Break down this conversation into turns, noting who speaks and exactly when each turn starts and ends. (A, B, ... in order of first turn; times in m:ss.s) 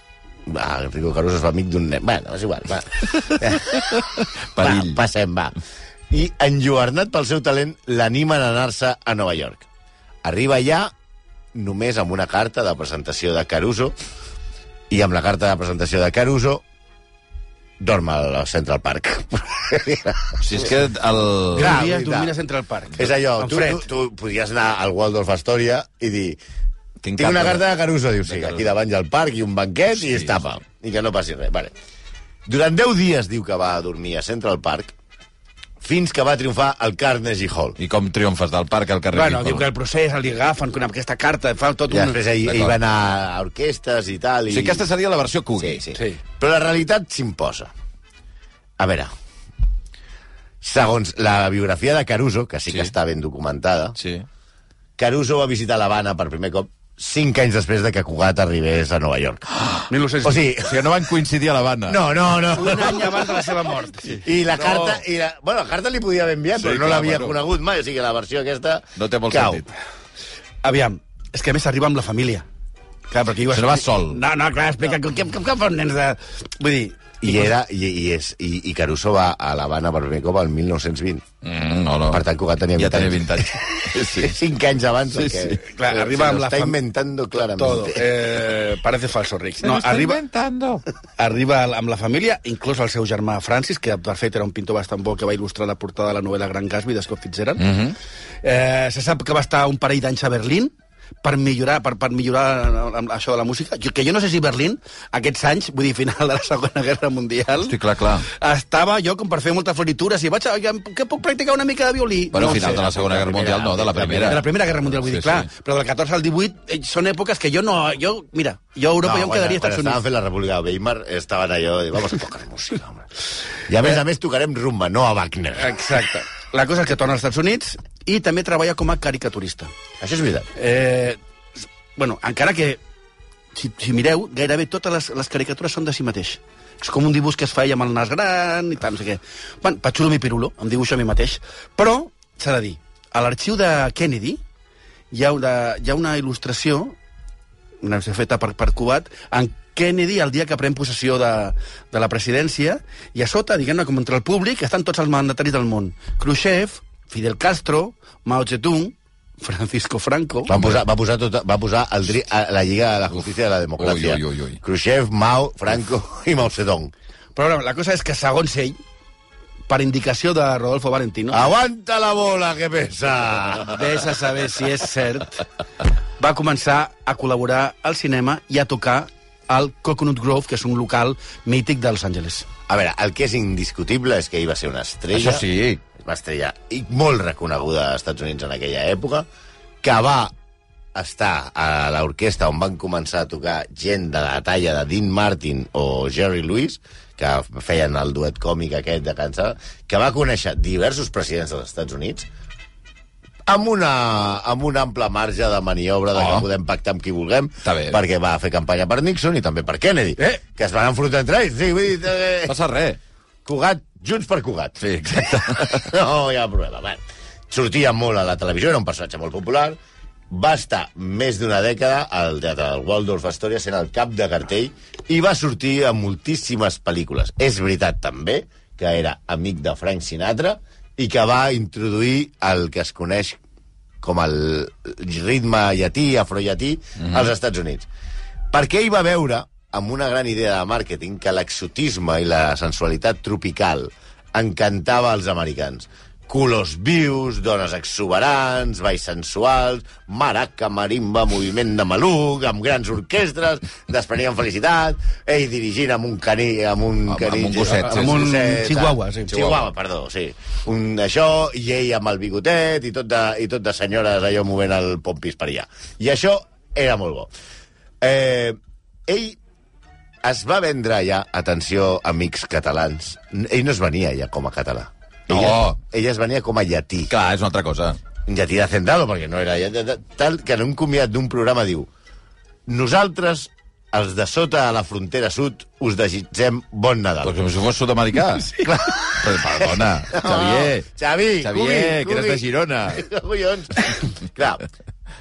0:00.5-0:05.6 A
0:03.8-0:04.0 B
0:04.5-0:05.0 B
0:06.1-0:09.7 A
0:10.2-0:10.9 A
0:11.5-0:14.0 A
0:14.9-0:16.6 A
0:17.8-0:20.7 A
0:20.4-0:21.8 B
0:21.5-0:23.8 C
0:21.6-0:22.3 A
0:23.0-0:26.4 A
0:27.0-0:27.6 B
0:27.2-0:31.7 A
0:28.3-0:28.7 B
0:30.0-0:30.3 B
0:32.5-0:34.9 A
0:35.8-0:37.8 A
0:37.8-0:39.6 B
0:39.1-0:42.2 C
0:41.9-0:44.8 A
0:42.4-0:42.8 B
0:44.5-0:45.8 B
0:45.6-0:47.7 A
0:48.8-0:49.1 A
0:50.6-0:54.0 A
0:54.0-0:54.3 B
0:55.0-0:59.5 A
0:59.6-0:59.9 B
0:59.9-1:00.4 C
1:00.2-1:01.0 A
1:00.6-1:02.0 B
1:01.9-1:03.3 A
1:02.5-1:04.3 C
1:04.2-1:09.6 A
1:06.6-1:07.4 B
1:09.0-1:09.7 B
1:10.6-1:12.4 C
1:13.1-1:17.3 C
1:13.5-1:14.2 B
1:17.2-1:21.2 A
1:21.4-1:22.2 B
1:22.1-1:28.1 A
1:22.8-1:24.4 B
1:25.2-1:25.6 B
1:25.6-1:26.8 C
1:27.6-1:30.2 C
1:29.6-1:30.8 B
1:31.2-1:37.6 C
1:37.6-1:38.0 B
1:38.4-1:47.8 C
1:47.6-1:48.3 B
1:48.3-1:53.2 C
1:52.3-1:55.5 B
1:52.9-1:54.4 A
1:54.1-2:00.0 C
1:59.0-2:03.1 A
2:03.7-2:05.8 A
2:05.6-2:09.7 C
2:10.0-2:10.5 A
2:10.6-2:11.2 C
2:12.0-2:12.8 C
2:13.5-2:24.4 C
2:25.1-2:27.0 C
2:27.8-2:40.5 C
2:40.5-2:46.9 A
2:40.5-2:40.8 B
2:43.8-2:44.6 B
2:47.4-2:48.8 C
2:49.7-2:51.5 C
2:51.3-2:53.8 A
2:53.7-2:55.4 C
2:56.2-3:02.5 C
3:02.7-3:09.3 A
3:05.1-3:05.8 B
3:09.8-3:10.3 A
3:11.0-3:22.3 A
3:23.5-3:32.6 A
3:26.2-3:26.5 B
3:27.6-3:28.0 B
3:32.5-3:33.0 B
3:33.4-3:39.8 A
3:34.8-3:35.9 B
3:40.3-3:53.4 A
3:54.0-3:57.9 A
3:57.0-3:57.3 B
3:58.5-4:27.3 A
4:17.1-4:18.2 B
4:17.7-4:19.5 C
4:19.3-4:19.6 B
4:28.0-4:29.4 A
4:30.2-4:37.1 A
4:35.3-4:35.8 B
4:37.1-4:38.0 B
4:38.3-4:41.9 A
4:42.7-4:47.3 A
4:47.2-4:50.9 B
4:48.6-4:54.6 A
4:51.4-4:53.0 B